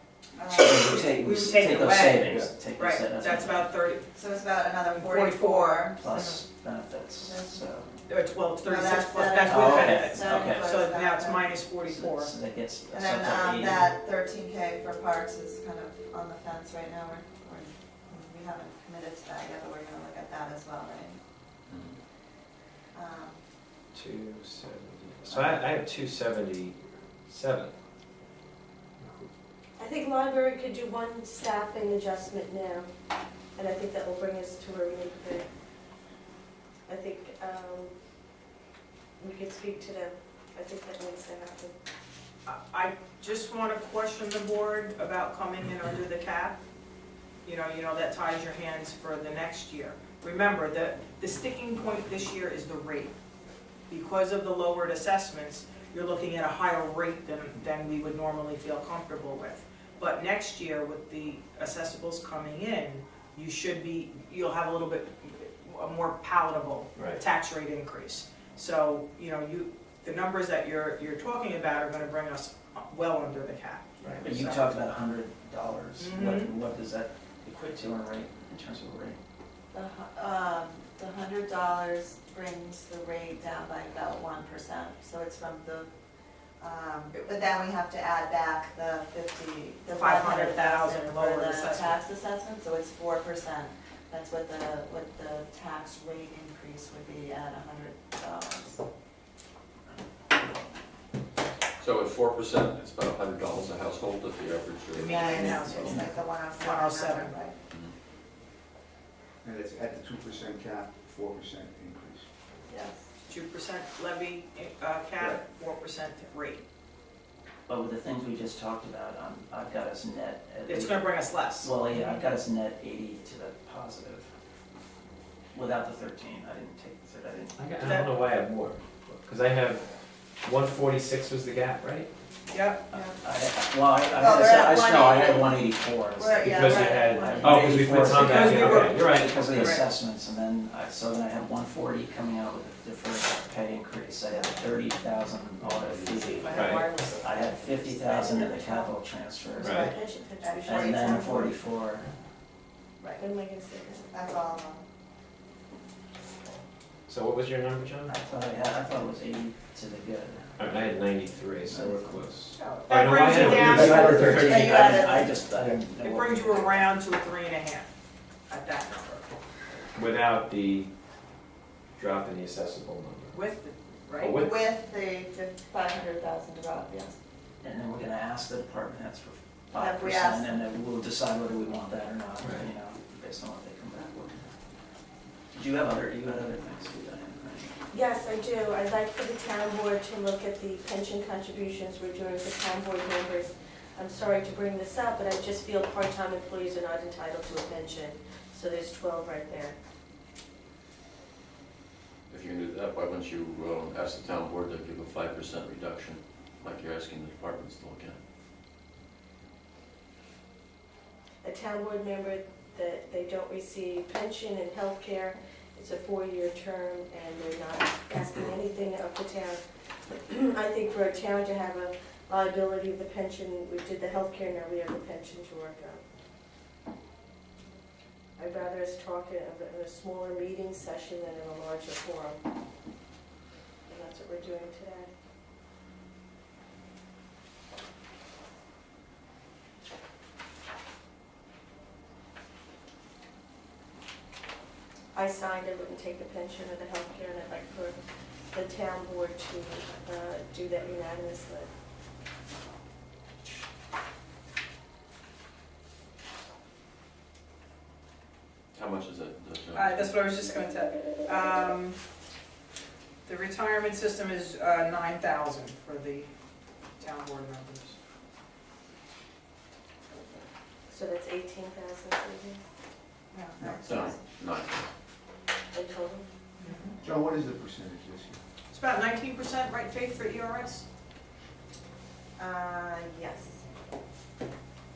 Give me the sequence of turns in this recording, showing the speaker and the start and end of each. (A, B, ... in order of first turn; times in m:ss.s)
0:00.4-0:01.0 A
0:00.5-0:03.7 B
0:00.6-0:04.1 C
0:04.1-0:06.0 A
0:04.9-0:06.4 C
0:06.0-0:07.9 B
0:07.2-0:07.7 A
0:08.1-0:12.3 C
0:08.6-0:11.6 A
0:09.4-0:10.8 B
0:11.8-0:14.0 B
0:12.9-0:21.2 A
0:21.7-0:22.0 D
0:22.9-0:23.4 A
0:23.9-0:27.7 E
0:29.0-0:29.3 E
0:29.8-0:32.9 F
0:33.6-0:35.5 F
0:36.9-0:37.9 F
0:39.2-0:41.7 F
0:42.4-0:46.6 C
0:47.4-0:53.1 C
0:53.9-1:14.6 C
1:07.0-1:07.2 E
1:14.0-1:14.3 E
1:14.2-1:19.2 B
1:16.0-1:16.5 C
1:19.7-1:25.9 A
1:26.6-1:38.8 A
1:29.9-1:32.0 C
1:41.8-1:46.1 D
1:44.9-1:47.4 C
1:45.0-1:47.6 A
1:49.4-1:52.3 G
1:52.7-1:53.0 A
1:53.3-1:56.6 C
1:57.7-2:04.3 B
2:00.7-2:02.0 C
2:05.5-2:07.6 B
2:07.6-2:09.9 E
2:07.8-2:08.1 C
2:10.4-2:12.1 E
2:12.5-2:12.8 C
2:12.9-2:13.2 A
2:12.9-2:29.9 B
2:14.1-2:15.6 A
2:16.1-2:17.8 A
2:16.4-2:19.6 E
2:18.0-2:19.8 C
2:26.1-2:28.5 A
2:26.5-2:26.9 E
2:28.3-2:28.6 F
2:29.6-2:29.9 E
2:29.6-2:31.5 A
2:29.7-2:31.5 F
2:30.6-2:32.1 B
2:33.2-2:34.1 F
2:34.1-2:34.8 A
2:37.1-2:38.1 E
2:38.1-2:40.6 B
2:40.6-2:45.8 E
2:41.7-2:42.2 B
2:42.5-2:45.4 A
2:42.9-2:44.3 C
2:43.2-2:46.9 B
2:46.0-2:47.9 C
2:48.5-2:49.4 C
2:49.9-2:50.9 E
2:52.0-2:53.4 E
2:53.3-2:54.4 C
2:54.1-2:54.7 E
2:54.3-2:57.2 A
2:57.6-3:04.5 B
2:59.7-3:00.5 A
3:02.4-3:02.7 E
3:05.5-3:07.7 B
3:07.9-3:19.8 F
3:22.3-3:28.2 D
3:31.4-3:46.0 F
3:48.4-3:52.4 F
3:53.9-3:55.1 F
4:05.1-4:11.7 F
4:18.7-4:20.2 D
4:19.7-4:22.0 C
4:23.2-4:26.3 C
4:27.0-4:28.0 C
4:30.9-4:32.6 F
4:33.3-4:34.2 A
4:33.7-4:34.9 D
4:35.7-4:36.2 F
4:36.6-4:36.9 C
4:36.6-4:36.9 A
4:37.0-4:38.4 G
4:38.7-4:40.8 C
4:42.4-4:43.6 A